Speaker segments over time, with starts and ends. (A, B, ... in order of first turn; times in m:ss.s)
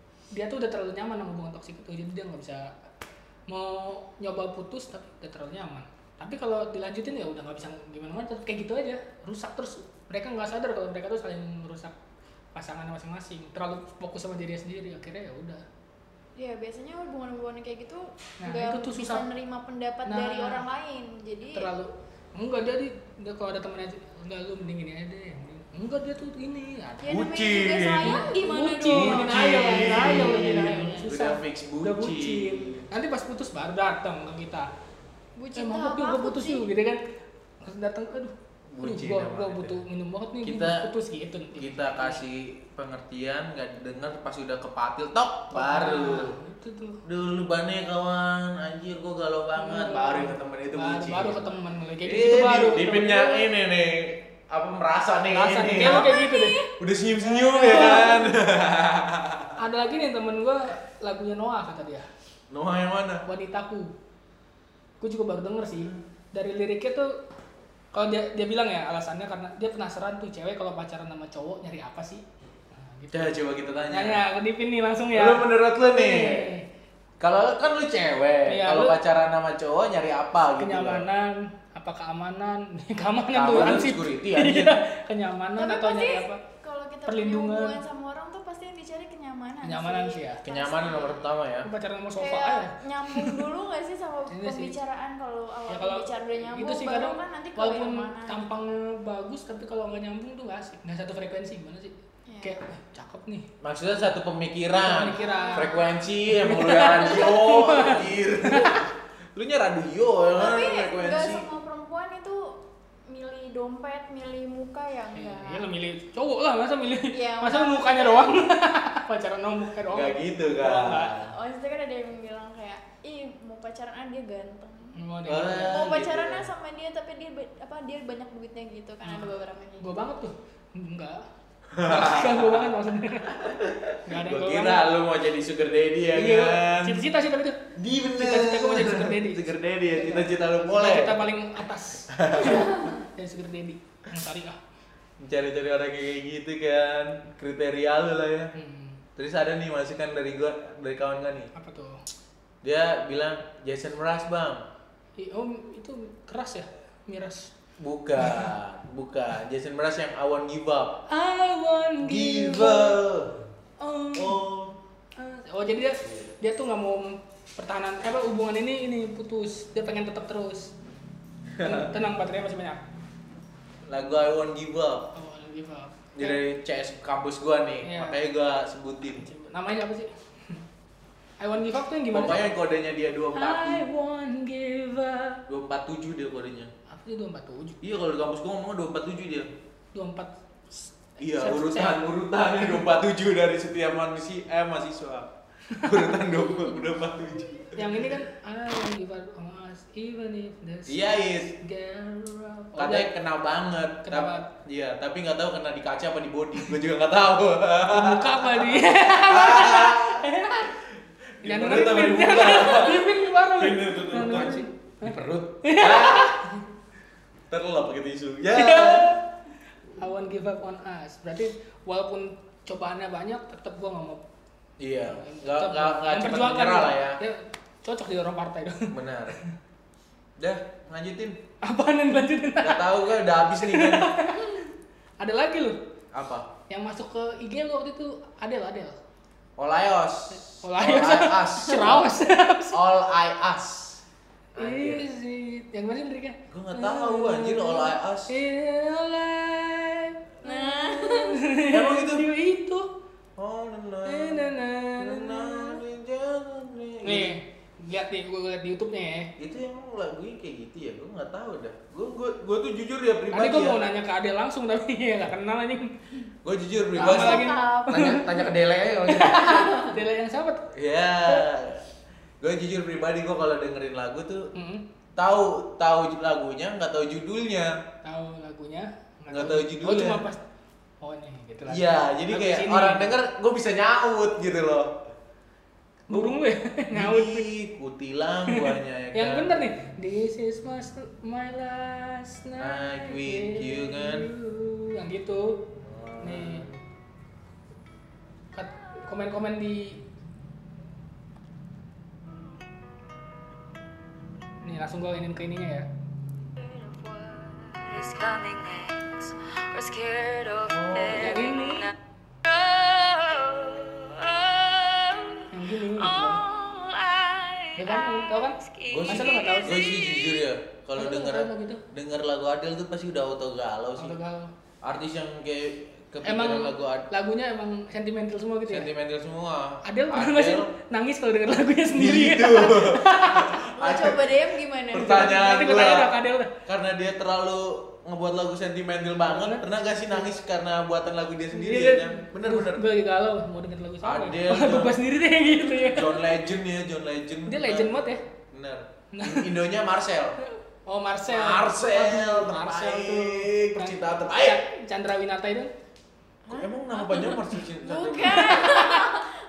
0:00.3-0:02.7 A
0:03.5-0:11.9 A
0:12.6-0:15.6 A
0:16.4-0:21.7 B
0:18.4-0:19.2 A
0:20.1-0:20.6 A
0:21.5-0:27.1 A
0:27.0-0:30.4 B
0:27.1-0:28.2 C
0:28.0-0:34.7 A
0:28.9-0:32.8 C
0:35.4-0:36.7 B
0:35.6-0:37.0 A
0:37.6-0:42.2 A
0:38.7-0:39.8 C
0:40.4-0:40.9 C
0:41.6-0:46.4 C
0:45.5-0:47.0 A
0:47.0-0:51.5 C
0:49.6-0:53.5 A
0:52.0-0:56.1 C
0:55.3-0:56.6 A
0:55.8-0:56.8 B
0:56.8-0:59.6 C
0:57.3-0:58.2 B
0:57.6-0:58.3 A
0:59.6-1:02.1 A
1:02.5-1:03.2 C
1:03.3-1:03.9 A
1:05.0-1:07.1 A
1:07.9-1:12.2 A
1:12.8-1:16.6 A
1:13.1-1:14.2 C
1:15.1-1:16.5 C
1:17.2-1:21.0 C
1:18.5-1:19.0 A
1:20.6-1:26.4 A
1:23.3-1:24.7 C
1:25.6-1:31.3 B
1:27.1-1:27.8 A
1:29.6-1:30.4 A
1:30.4-1:31.7 C
1:31.6-1:33.4 A
1:32.2-1:38.4 B
1:34.3-1:34.7 A
1:35.7-1:43.5 A
1:42.3-1:42.6 B
1:43.6-1:51.5 C
1:44.8-1:48.8 A
1:45.0-1:45.9 B
1:50.4-1:55.7 B
1:55.2-2:01.1 A
1:57.1-1:58.5 B
1:59.9-2:01.4 C
2:01.4-2:05.0 B
2:05.0-2:05.8 A
2:05.3-2:06.5 C
2:05.7-2:10.1 B
2:09.0-2:11.2 A
2:11.7-2:12.7 C
2:11.8-2:13.5 A
2:13.3-2:17.0 C
2:14.0-2:15.0 A
2:16.1-2:17.6 A
2:17.8-2:21.3 C
2:18.2-2:24.6 A
2:22.1-2:22.7 C
2:25.2-2:28.5 C
2:28.5-2:29.0 A
2:29.2-2:31.5 C
2:31.5-2:32.0 A
2:32.6-2:34.7 C
2:35.2-2:37.5 A
2:37.8-2:41.0 C
2:38.2-2:38.5 A
2:41.1-2:43.0 A
2:42.0-2:43.4 C
2:43.8-2:44.4 A
2:44.1-2:44.8 C
2:45.2-2:50.7 A
2:51.6-2:51.9 C
2:51.6-2:52.8 A
2:53.9-2:55.1 C
2:55.1-2:56.4 A
2:56.2-2:59.2 C
2:57.8-2:58.2 A
2:59.1-3:00.6 A
3:01.4-3:02.5 A
3:02.1-3:03.9 C
3:03.4-3:05.4 A
3:05.5-3:06.7 C
3:06.9-3:07.8 A
3:07.8-3:09.5 C
3:09.9-3:12.0 A
3:11.2-3:18.1 C
3:17.8-3:23.1 A
3:20.9-3:21.5 C
3:22.8-3:30.3 C
3:24.0-3:24.5 A
3:27.9-3:30.7 A
3:31.4-3:34.7 C
3:31.4-3:36.6 A
3:35.0-3:35.5 D
3:35.2-3:36.4 C
3:37.5-3:39.2 C
3:38.5-3:39.3 A
3:40.0-3:44.2 A
3:44.8-3:47.2 C
3:45.0-3:48.9 A
3:48.9-3:49.4 C
3:50.4-3:51.4 C
3:51.6-3:55.8 A
3:52.6-3:54.1 C
3:56.1-3:56.5 C
3:56.7-3:59.0 A
3:59.6-4:02.1 C
4:00.4-4:02.8 A
4:02.7-4:04.0 C
4:04.6-4:05.1 C
4:04.6-4:12.9 A
4:06.5-4:08.3 C
4:10.4-4:11.4 B
4:11.7-4:12.3 C
4:13.4-4:17.4 C
4:14.0-4:15.8 A
4:17.0-4:19.3 A
4:19.4-4:23.8 C
4:23.3-4:25.9 A
4:26.4-4:27.5 C
4:27.0-4:28.3 A
4:27.0-4:28.3 B
4:27.9-4:29.6 D
4:29.1-4:30.7 A
4:29.3-4:29.9 B
4:30.7-4:31.8 C
4:32.4-4:34.5 C
4:34.6-4:34.8 A
4:35.2-4:37.8 C
4:38.0-4:40.4 A
4:39.3-4:40.2 C
4:41.0-4:43.2 A
4:41.7-4:44.9 C
4:46.1-4:47.5 A
4:46.1-4:46.4 C
4:46.9-4:49.7 C
4:48.5-4:56.7 A
4:52.6-4:54.3 C
4:55.8-4:56.7 C
4:58.5-5:00.0 A
5:04.6-5:05.9 A
5:06.6-5:11.9 E
5:10.6-5:11.4 C
5:11.1-5:11.9 A
5:12.4-5:15.4 E
5:15.5-5:16.4 A
5:16.0-5:20.4 E
5:17.8-5:19.8 A
5:18.9-5:24.2 C
5:21.0-5:21.8 A
5:24.0-5:24.5 A
5:24.8-5:27.1 C
5:26.2-5:28.9 A
5:28.7-5:30.7 C
5:29.8-5:33.6 A
5:31.9-5:34.4 C
5:33.8-5:35.3 B
5:34.9-5:36.1 C
5:35.0-5:36.5 A
5:36.7-5:42.9 C
5:39.1-5:40.2 A
5:41.5-5:46.3 A
5:44.0-5:45.0 C
5:45.8-5:50.4 C
5:47.5-5:48.2 A
5:49.1-5:49.5 A
5:50.4-5:55.7 A
5:51.3-5:54.6 C
5:56.5-5:59.3 B
5:56.5-5:58.7 C
5:58.3-5:59.2 A